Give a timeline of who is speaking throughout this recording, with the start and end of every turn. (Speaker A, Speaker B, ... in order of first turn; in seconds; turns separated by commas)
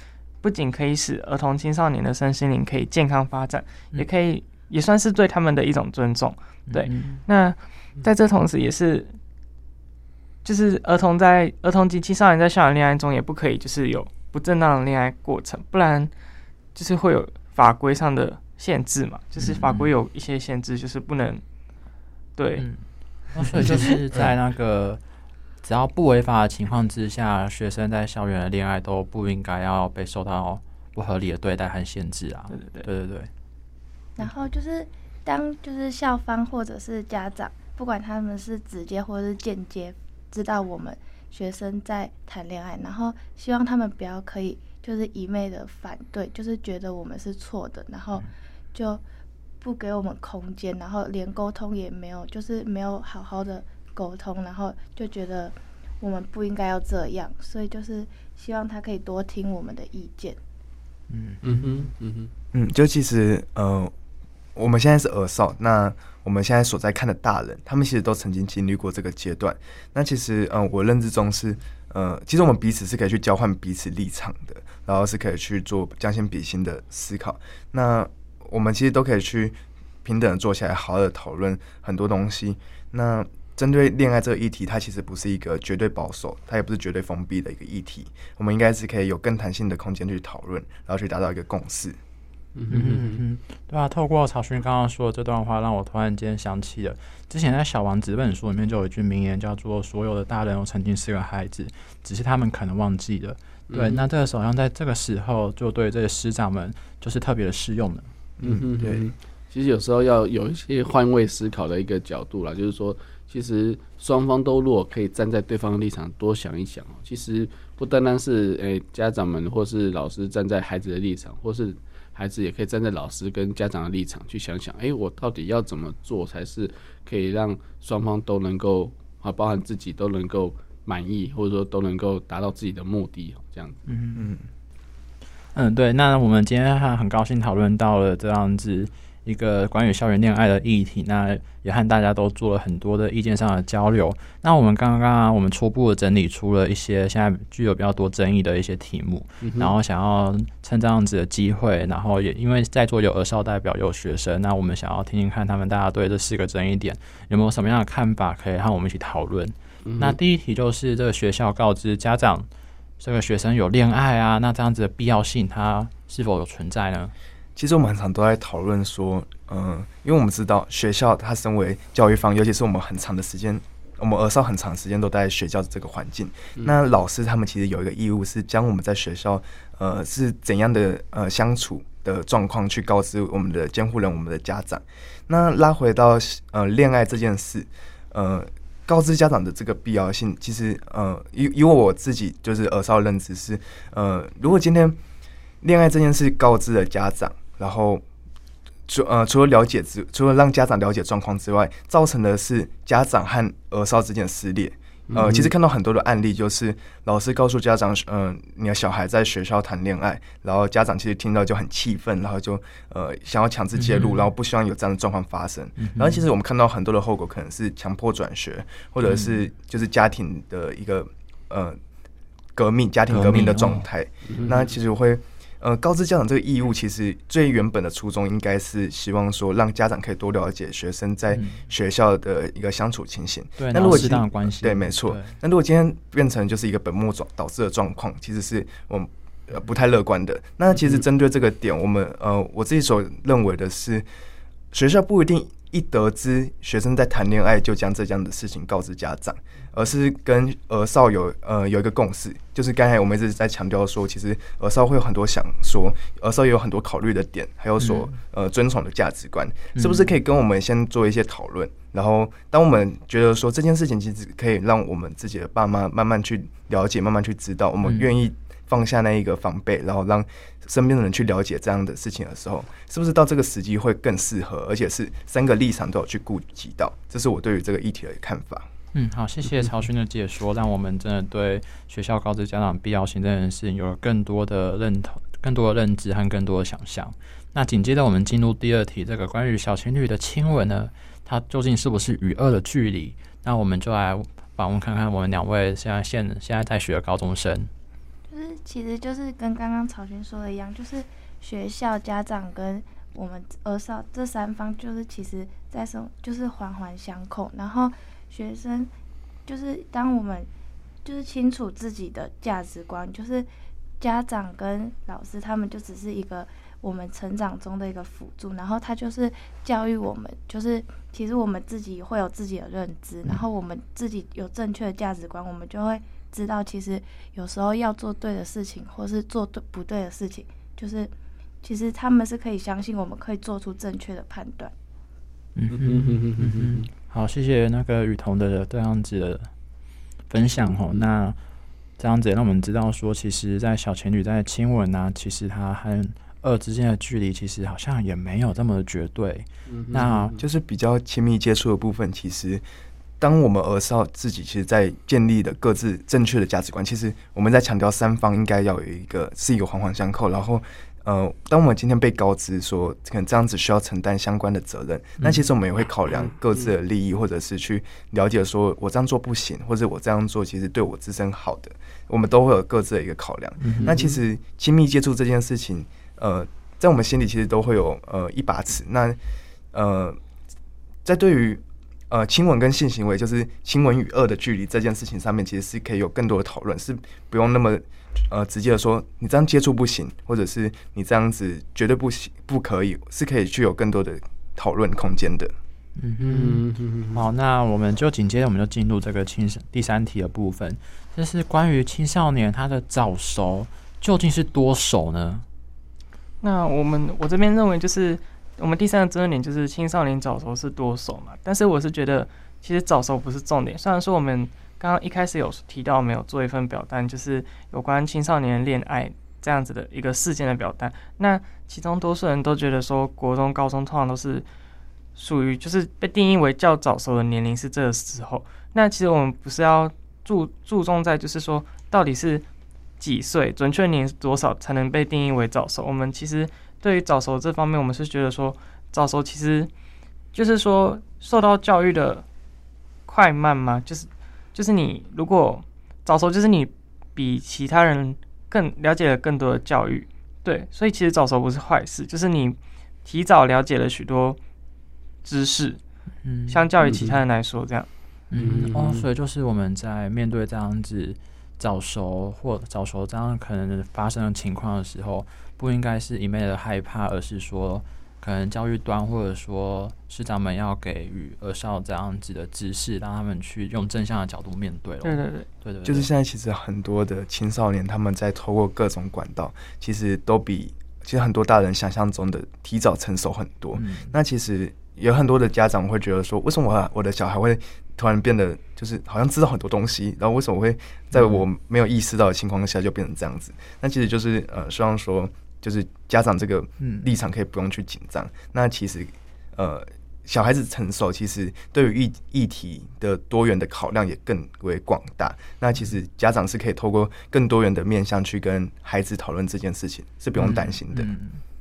Speaker A: 0.4-9.2, Speaker B: 6.7-7.2, Speaker A: 10.4-16.1, Speaker A: 16.7-21.4, Speaker B: 19.4-19.9, Speaker A: 22.4-22.7, Speaker B: 22.6-25.0, Speaker A: 23.3-24.0, Speaker B: 25.6-33.3, Speaker A: 32.5-32.9, Speaker C: 34.2-49.0, Speaker C: 49.6-60.4, Speaker B: 61.1-61.9, Speaker D: 61.4-62.3, Speaker E: 62.5-63.9, Speaker E: 64.5-92.0, Speaker D: 92.5-93.2, Speaker B: 92.7-108.1, Speaker D: 103.7-104.1, Speaker E: 108.4-109.1, Speaker D: 108.4-133.8, Speaker B: 133.9-134.3, Speaker E: 134.2-134.4, Speaker B: 135.5-162.5, Speaker D: 149.4-149.7, Speaker D: 159.8-160.2, Speaker B: 163.0-167.1, Speaker E: 167.6-195.0, Speaker E: 195.6-198.0, Speaker E: 198.9-221.8, Speaker D: 205.1-205.5, Speaker B: 213.8-214.2, Speaker B: 215.8-216.2, Speaker B: 219.0-219.4, Speaker E: 222.6-244.1, Speaker B: 223.1-223.8, Speaker D: 224.3-224.7, Speaker B: 231.3-231.6, Speaker B: 233.6-235.3, Speaker E: 244.7-278.7, Speaker B: 257.8-258.1, Speaker B: 259.8-260.1, Speaker B: 267.8-268.1, Speaker B: 278.9-297.7, Speaker C: 298.3-308.9, Speaker C: 309.5-310.5, Speaker C: 311.0-313.5, Speaker C: 314.0-331.1, Speaker C: 331.6-334.7, Speaker B: 335.6-339.5, Speaker D: 335.7-336.9, Speaker B: 340.3-341.4, Speaker B: 342.0-350.3, Speaker D: 349.7-350.4, Speaker E: 350.4-352.6, Speaker E: 353.2-379.2, Speaker B: 365.2-365.4, Speaker B: 373.6-374.0, Speaker D: 373.8-374.2, Speaker E: 379.7-380.2, Speaker E: 381.1-395.5, Speaker B: 396.0-405.4, Speaker D: 396.2-397.2, Speaker A: 406.4-424.5, Speaker A: 425.1-432.4, Speaker A: 433.0-439.7, Speaker A: 440.3-442.3, Speaker A: 443.1-454.4, Speaker A: 455.2-455.8, Speaker B: 456.2-456.6, Speaker A: 456.5-457.9, Speaker D: 456.8-457.2, Speaker B: 458.3-476.1, Speaker D: 458.3-459.1, Speaker A: 475.0-475.5, Speaker E: 475.8-511.1, Speaker B: 483.8-484.1, Speaker B: 491.1-491.4, Speaker B: 510.4-511.4